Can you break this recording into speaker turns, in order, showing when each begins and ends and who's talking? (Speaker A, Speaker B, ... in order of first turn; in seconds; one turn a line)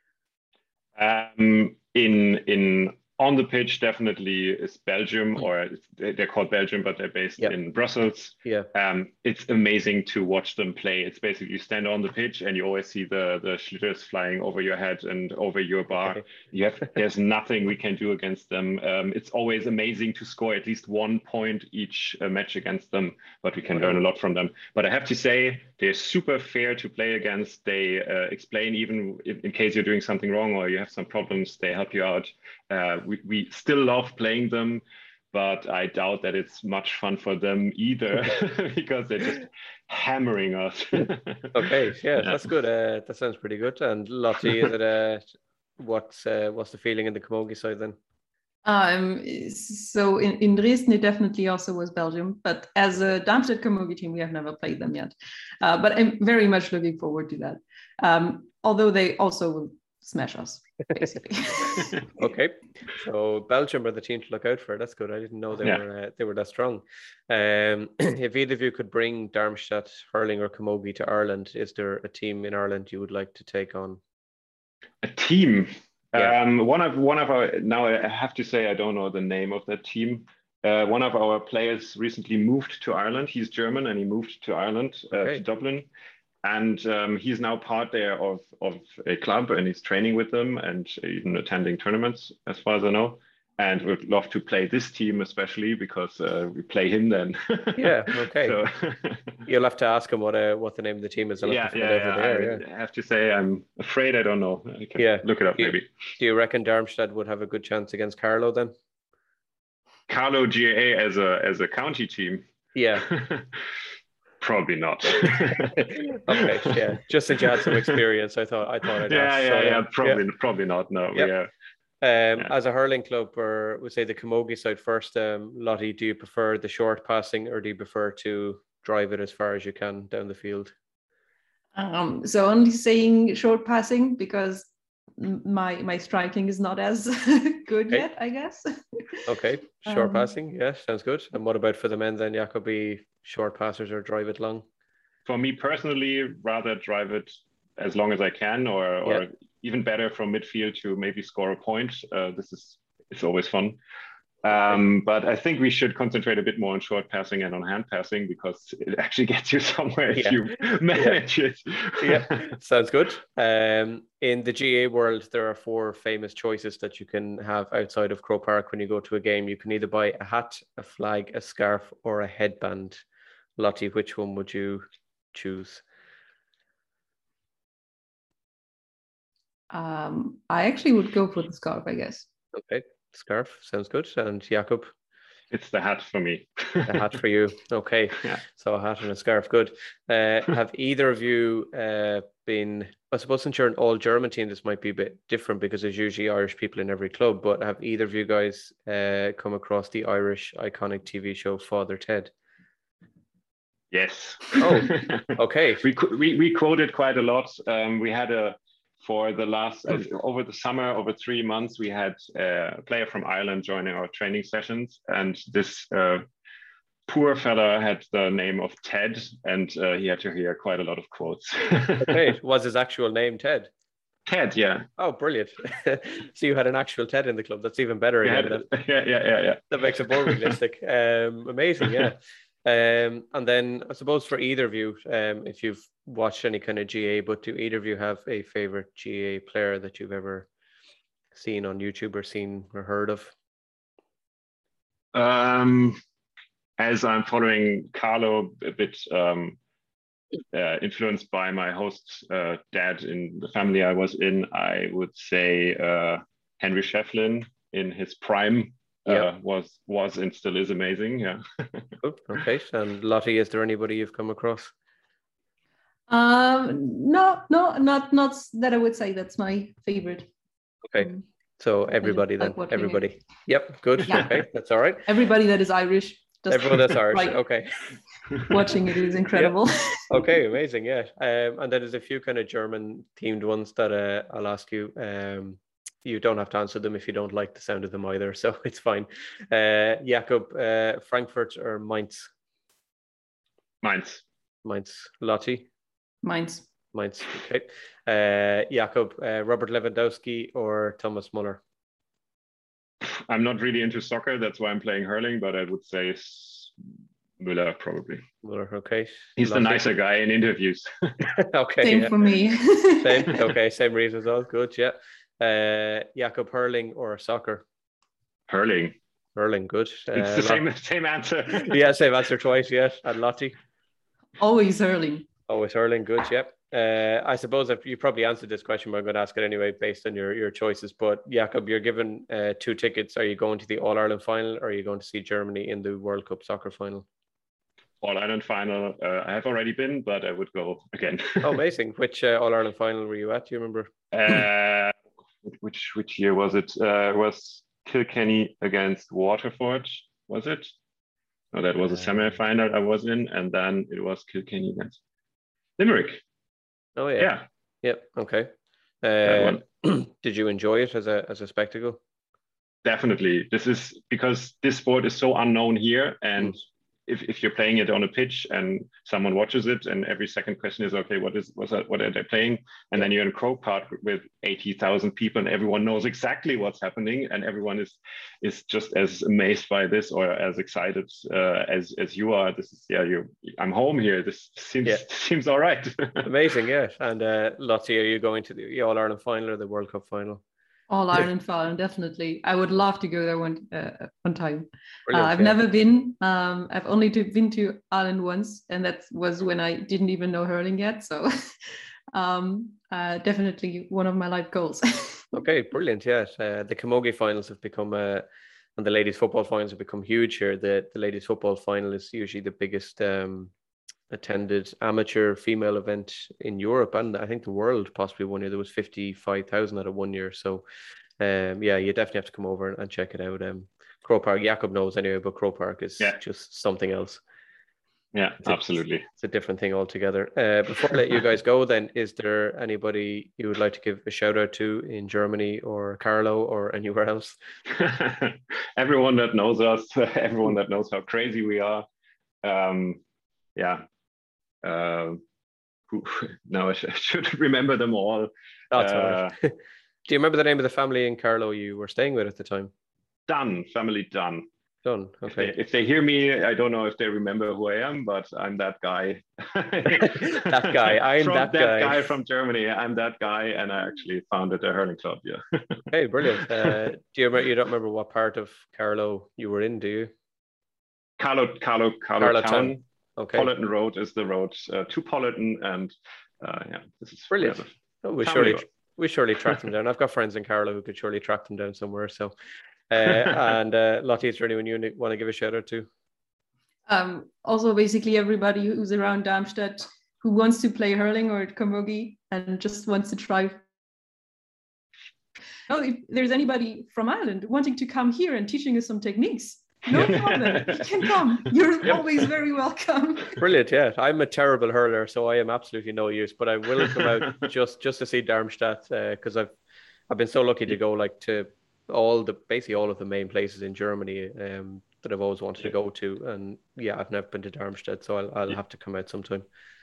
Speaker A: 1.0-42.5
Speaker B: 41.5-45.2
Speaker B: 45.8-48.0
Speaker C: 48.6-62.0
Speaker B: 62.1-74.0
Speaker A: 75.0-85.9
Speaker B: 85.1-85.4
Speaker A: 86.4-99.4
Speaker B: 97.8-98.6
Speaker B: 99.5-102.6
Speaker A: 101.4-105.9
Speaker B: 105.0-108.7
Speaker A: 110.1-112.5
Speaker B: 112.8-113.1
Speaker A: 113.0-113.7
Speaker A: 114.4-116.8
Speaker B: 116.3-120.2
Speaker A: 117.3-118.0
Speaker A: 119.0-121.5
Speaker B: 122.0-130.7
Speaker C: 131.8-139.2
Speaker B: 139.3-144.6
Speaker C: 139.9-140.3
Speaker A: 145.3-153.8
Speaker A: 154.4-162.6
Speaker B: 160.2-160.4
Speaker B: 162.0-173.0
Speaker B: 173.6-175.8
Speaker C: 179.7-182.3
Speaker B: 182.5-184.9
Speaker A: 185.5-187.1
Speaker B: 186.9-202.3
Speaker A: 203.9-216.2
Speaker B: 204.6-205.9
Speaker A: 217.1-222.3
Speaker B: 222.0-223.7
Speaker A: 224.3-224.9
Speaker B: 225.0-228.7
Speaker A: 228.2-230.6
Speaker B: 229.7-240.5
Speaker A: 231.8-232.1
Speaker B: 241.3-243.3
Speaker A: 245.1-246.0
Speaker A: 246.8-249.6
Speaker A: 250.5-262.0
Speaker B: 262.0-264.7
Speaker C: 266.1-270.3
Speaker B: 270.9-275.0
Speaker C: 271.0-271.2
Speaker C: 272.0-273.1
Speaker C: 274.1-274.5
Speaker C: 275.1-277.4
Speaker B: 276.5-277.9
Speaker C: 278.4-280.3
Speaker B: 280.1-292.3
Speaker A: 293.8-294.2
Speaker B: 294.6-295.7
Speaker C: 296.2-296.6
Speaker B: 296.9-301.6
Speaker A: 303.0-306.7
Speaker A: 307.4-308.2
Speaker B: 308.4-309.9
Speaker A: 309.4-311.3
Speaker B: 311.3-312.2
Speaker C: 311.8-313.3
Speaker B: 313.0-317.6
Speaker A: 318.5-319.0
Speaker B: 319.4-320.6
Speaker A: 320.1-321.8
Speaker B: 321.5-323.6
Speaker C: 324.4-325.3
Speaker B: 325.5-337.1
Speaker A: 338.0-341.6
Speaker B: 341.4-343.9
Speaker A: 344.1-344.9
Speaker A: 345.5-350.7
Speaker A: 351.5-355.0
Speaker A: 355.8-356.2
Speaker B: 357.0-358.5
Speaker A: 357.2-357.5
Speaker B: 359.0-362.0
Speaker A: 359.2-359.6
Speaker A: 362.8-386.3
Speaker B: 386.2-390.4
Speaker C: 390.9-401.3
Speaker B: 395.1-395.6
Speaker C: 402.1-405.3
Speaker B: 405.3-408.3
Speaker B: 408.8-413.5
Speaker B: 414.1-420.6
Speaker B: 421.2-427.2
Speaker A: 428.1-429.0
Speaker B: 429.2-437.4
Speaker A: 437.7-441.9
Speaker A: 442.4-443.0
Speaker A: 443.6-443.9
Speaker A: 444.6-445.2
Speaker A: 445.9-449.3
Speaker B: 448.7-449.5
Speaker B: 450.1-452.7
Speaker A: 453.3-454.5
Speaker B: 454.8-455.5
Speaker A: 455.3-466.8
Speaker B: 459.9-462.1
Speaker B: 465.9-470.1
Speaker A: 471.2-478.6
Speaker B: 472.2-473.5
Speaker B: 477.3-482.3
Speaker B: 482.9-485.9
Speaker A: 483.0-483.3
Speaker C: 486.9-493.6
Speaker C: 495.7-503.4
Speaker A: 499.9-500.9
Speaker B: 503.4-509.5
Speaker A: 506.8-507.4
Speaker B: 510.1-519.5